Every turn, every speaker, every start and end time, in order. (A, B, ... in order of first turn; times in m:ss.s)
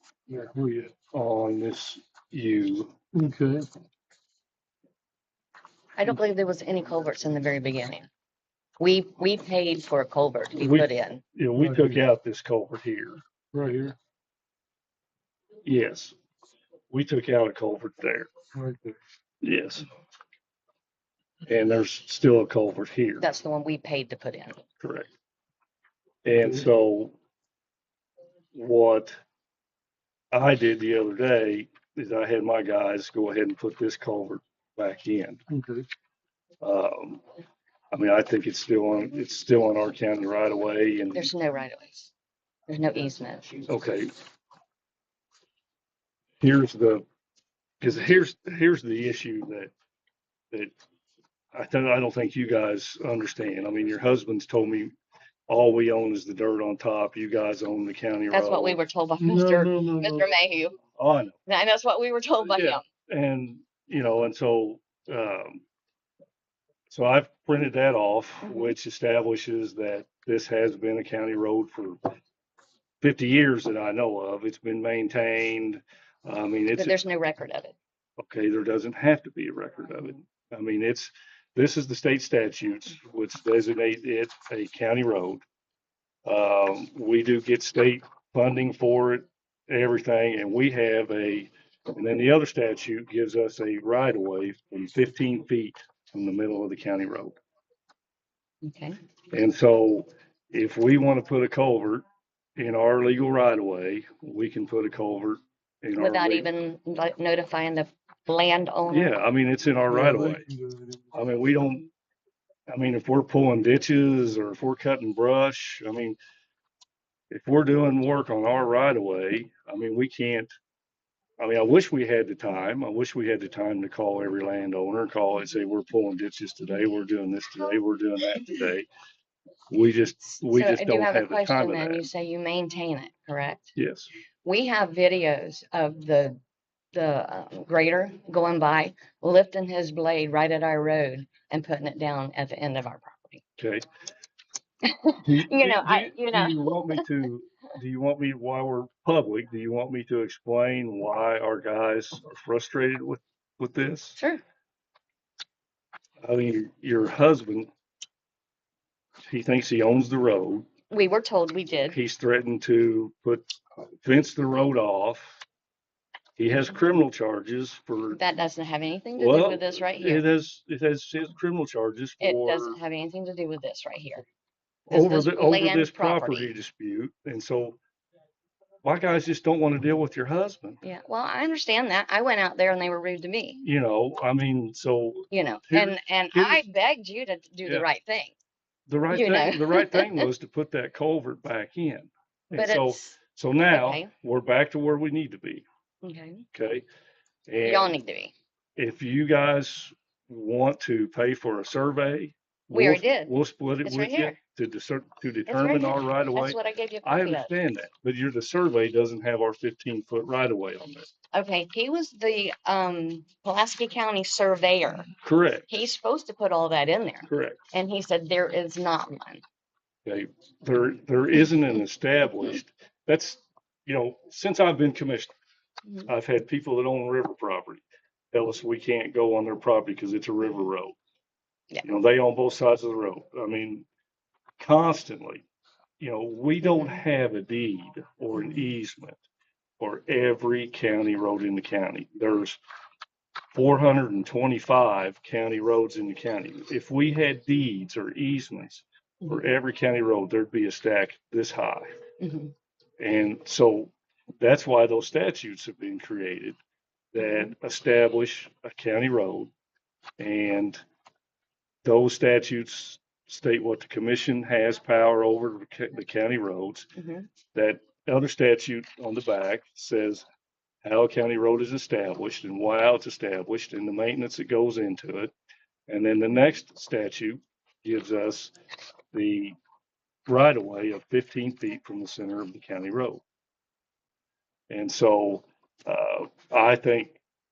0:00.3-0:00.9 A
0:01.1-0:02.9 B
0:03.1-0:03.7 A
0:06.0-0:08.1 C
0:08.8-0:11.2 C
0:10.5-0:13.2 B
0:11.6-0:12.0 A
0:13.5-0:14.0 A
0:15.6-0:16.1 B
0:16.9-0:18.3 B
0:18.5-0:19.0 A
0:19.4-0:19.9 B
0:21.5-0:23.2 B
0:23.2-0:24.6 C
0:24.8-0:25.1 B
0:26.2-0:27.1 B
0:28.5-0:29.1 B
0:30.3-0:35.4 B
0:35.5-0:35.8 A
0:36.6-0:37.2 B
0:37.9-0:41.3 B
0:41.1-0:42.1 C
0:42.7-0:43.7 C
0:43.7-0:44.1 B
0:46.4-0:47.0 B
0:47.8-0:49.7 B
0:51.5-0:54.9 B
0:55.5-0:58.8 B
0:58.3-1:00.8 C
0:59.2-1:00.3 A
1:01.0-1:01.4 B
1:01.5-1:02.8 C
1:02.4-1:05.6 B
1:06.9-1:12.0 B
1:08.4-1:08.7 C
1:13.0-1:17.0 B
1:16.7-1:17.7 C
1:18.2-1:25.4 B
1:26.2-1:37.4 B
1:38.6-1:39.0 C
1:39.3-1:46.5 B
1:46.0-1:49.2 C
1:48.9-1:50.5 B
1:49.9-1:51.0 A
1:51.1-1:51.8 B
1:52.7-1:56.2 B
1:57.3-2:00.5 B
2:01.4-2:08.9 B
2:09.7-2:12.1 B
2:10.4-2:13.7 C
2:13.8-2:14.1 B
2:14.4-2:16.4 C
2:16.9-2:23.4 C
2:23.6-2:23.8 B
2:24.8-2:27.2 C
2:25.2-2:34.2 B
2:34.2-2:34.4 C
2:36.2-2:37.7 B
2:39.2-2:40.7 B
2:40.9-2:42.0 C
2:41.9-2:45.4 B
2:46.4-2:48.2 B
2:48.1-2:50.2 C
2:49.2-2:52.8 B
2:52.2-2:54.2 C
2:54.9-2:57.8 B
2:54.9-2:56.5 C
2:58.8-3:00.8 B
3:00.8-3:03.6 C
3:03.6-3:06.6 B
3:05.3-3:08.3 C
3:08.9-3:15.6 B
3:09.1-3:10.3 C
3:12.5-3:13.2 C
3:13.7-3:14.1 C
3:16.0-3:16.4 C
3:16.5-3:16.8 B
3:17.5-3:17.9 B
3:17.6-3:18.3 C
3:18.8-3:31.1 B
3:22.7-3:24.4 C
3:25.5-3:27.5 C
3:31.3-3:35.2 C
3:35.2-3:35.8 B
3:35.7-3:39.4 C
3:37.3-3:37.6 B
3:40.0-3:45.3 B
3:46.0-3:51.0 B
3:51.8-3:53.8 B
3:54.6-3:55.4 B
3:56.0-3:59.2 B
3:56.6-3:57.0 C
3:59.8-4:02.6 B
4:03.5-4:11.9 B
4:12.2-4:12.5 C
4:13.0-4:16.6 B
4:17.1-4:19.5 B
4:20.2-4:20.8 B
4:21.8-4:26.9 B
4:27.0-4:27.3 C
4:27.5-4:30.2 B
4:30.8-4:35.3 B
4:35.9-4:38.5 B
4:39.1-4:39.6 B
4:40.3-4:43.2 B
4:44.7-4:47.2 B